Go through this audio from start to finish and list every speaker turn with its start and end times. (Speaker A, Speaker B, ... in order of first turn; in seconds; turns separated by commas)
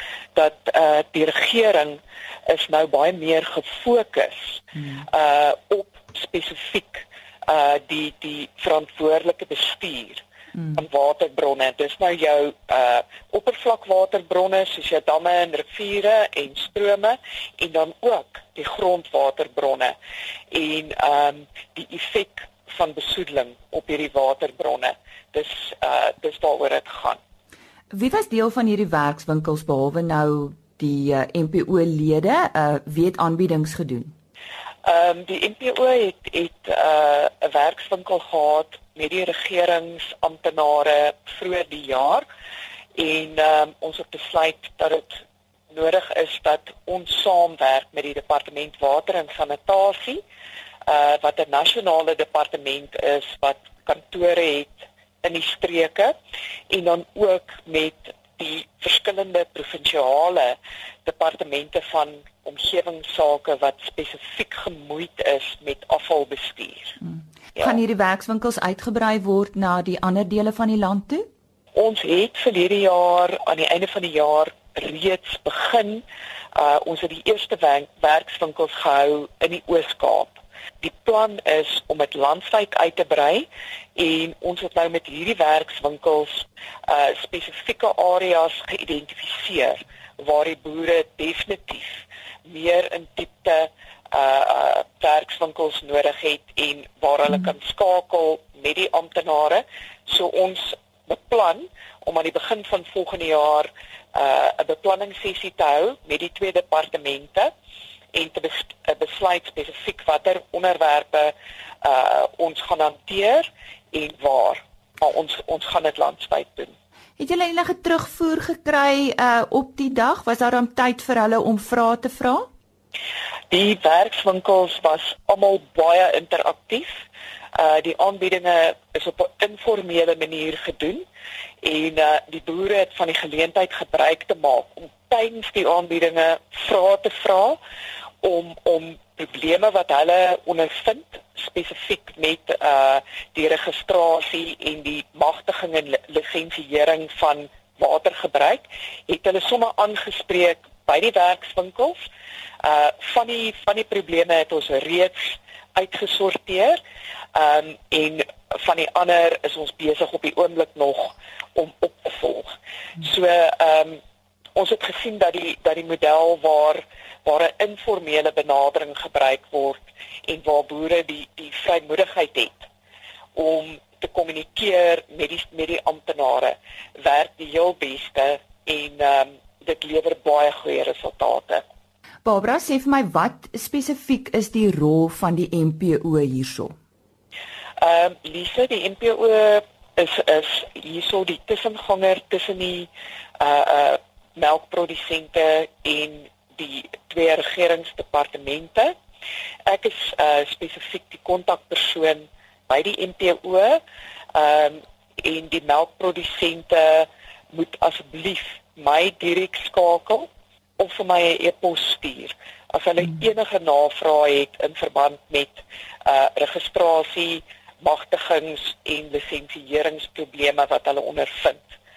Speaker A: 0.3-19.9, Speaker A: 20.5-27.2, Speaker B: 27.9-34.1, Speaker A: 34.8-42.2, Speaker A: 43.0-50.2, Speaker A: 50.9-56.1, Speaker A: 56.7-67.0, Speaker B: 67.0-71.3, Speaker A: 71.7-107.5, Speaker A: 108.1-116.7, Speaker B: 117.2-122.5, Speaker A: 123.5-126.9, Speaker A: 127.5-131.0, Speaker A: 131.6-137.6, Speaker A: 138.2-152.0, Speaker A: 152.6-156.8, Speaker A: 157.3-164.0, Speaker A: 164.5-172.6, Speaker A: 173.3-181.6, Speaker B: 182.2-186.7, Speaker A: 187.8-192.9, Speaker A: 193.4-198.9, Speaker A: 199.7-203.8, Speaker A: 204.3-210.3, Speaker A: 210.8-221.6